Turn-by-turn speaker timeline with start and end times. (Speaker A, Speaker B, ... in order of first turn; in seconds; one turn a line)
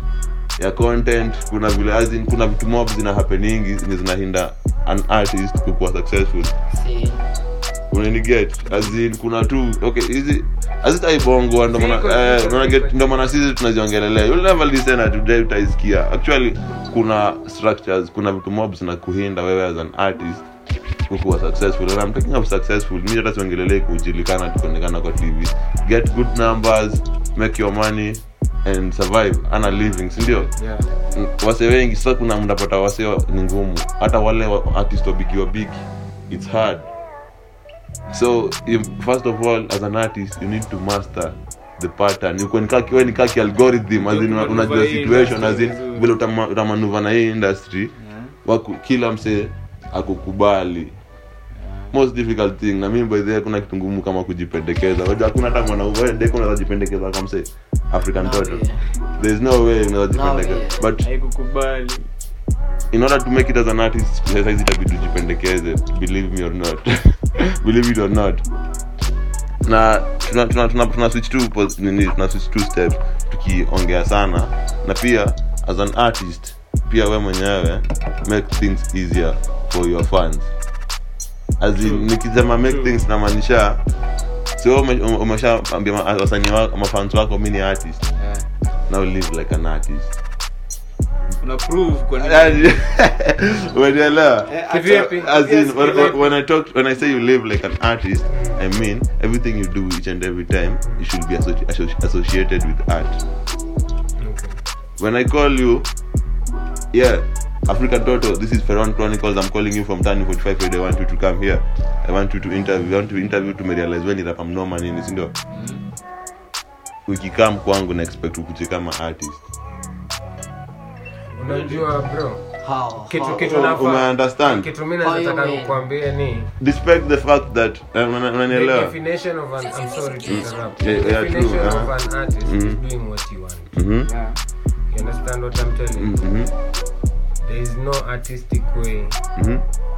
Speaker A: 0.6-6.5
Speaker B: 6.7-7.3
Speaker A: 7.9-20.5
Speaker C: 11.7-13.3
Speaker A: 21.1-30.5
Speaker D: 30.3-30.9
Speaker A: 31.1-36.9
Speaker A: 38.1-47.9
Speaker D: 44.0-46.1
Speaker D: 48.0-48.4
Speaker A: 48.4-50.9
Speaker D: 51.5-52.0
Speaker A: 51.9-58.6
Speaker B: 58.1-58.8
Speaker A: 59.2-61.0
Speaker B: 60.1-60.9
Speaker D: 61.0-62.1
Speaker A: 62.9-68.4
Speaker A: 69.6-80.5
Speaker A: 81.6-83.8
Speaker D: 81.8-83.0
Speaker A: 84.6-88.1
Speaker D: 88.2-88.5
Speaker A: 88.9-90.1
Speaker D: 91.4-92.7
Speaker A: 92.2-103.2
Speaker D: 94.5-96.3
Speaker C: 94.7-96.2
Speaker C: 98.3-98.6
Speaker C: 104.2-104.5
Speaker A: 105.0-105.9
Speaker A: 106.9-115.3
Speaker D: 115.5-115.8
Speaker A: 117.0-119.4
Speaker C: 121.3-122.4
Speaker A: 121.5-121.8
Speaker B: 122.6-123.7
Speaker C: 123.1-126.5
Speaker A: 123.4-124.7
Speaker B: 125.0-125.8
Speaker A: 126.6-129.0
Speaker C: 128.5-133.7
Speaker A: 130.2-131.9
Speaker A: 132.4-132.8
Speaker A: 133.7-134.1
Speaker D: 134.0-134.4
Speaker C: 134.9-136.2
Speaker A: 136.0-136.5
Speaker C: 137.4-139.2
Speaker A: 139.4-139.6